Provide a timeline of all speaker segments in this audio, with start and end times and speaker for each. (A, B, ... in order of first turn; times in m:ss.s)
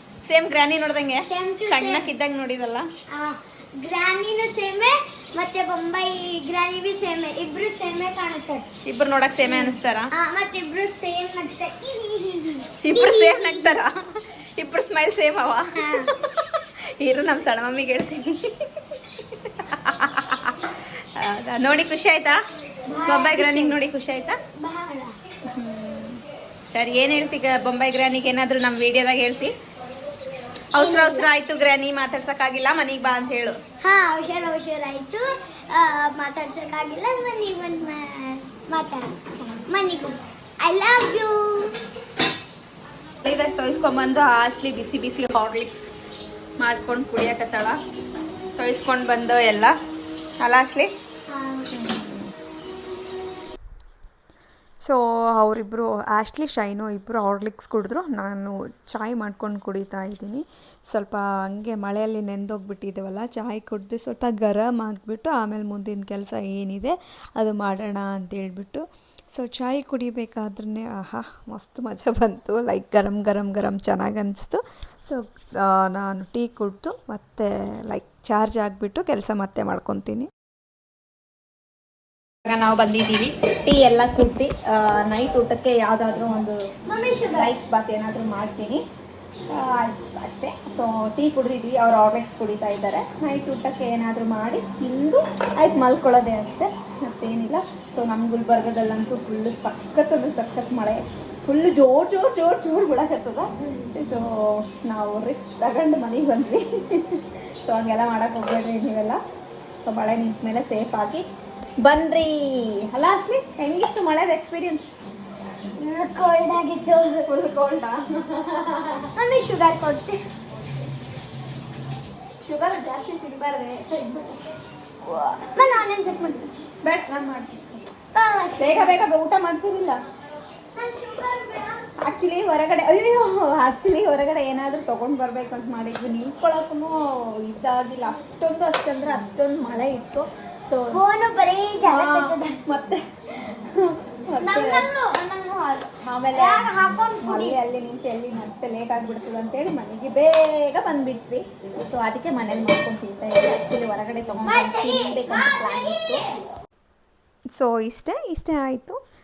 0:00.3-0:02.9 A
0:01.2-0:02.1 B
0:03.2-0:08.7 B
0:08.8-0:10.1 A
0:09.4-0:13.7 B
0:12.8-0:22.4 A
0:15.8-0:16.1 B
0:22.9-0:23.8 B
0:23.0-0:24.4 A
0:24.6-0:25.2 B
0:25.5-0:29.5 A
0:30.7-0:33.6 A
0:30.8-0:31.3 B
0:33.8-0:39.2 B
0:39.4-0:39.7 A
0:39.7-0:41.7 B
0:43.2-0:45.9 A
0:46.6-0:47.8 A
0:48.6-0:49.7 A
0:50.4-0:50.9 A
0:51.3-0:51.7 B
0:51.7-0:52.3 A
0:54.8-1:20.3 C
1:22.5-1:26.6 A
1:26.9-1:27.5 B
1:27.3-1:28.8 A
1:29.5-1:49.2 A
1:49.8-1:51.2 A
1:51.8-1:54.9 A
1:55.8-1:57.3 B
1:57.3-1:59.1 A
1:59.2-2:00.2 B
2:02.4-2:04.4 A
2:05.0-2:05.8 A
2:05.6-2:06.5 B
2:06.8-2:07.9 A
2:08.2-2:09.0 B
2:08.6-2:10.0 A
2:10.8-2:11.8 B
2:12.0-2:21.0 A
2:20.9-2:22.6 B
2:21.8-2:24.9 A
2:24.4-2:27.6 B
2:26.0-2:26.7 A
2:27.2-2:36.2 A
2:34.4-2:36.4 B
2:37.6-2:39.0 C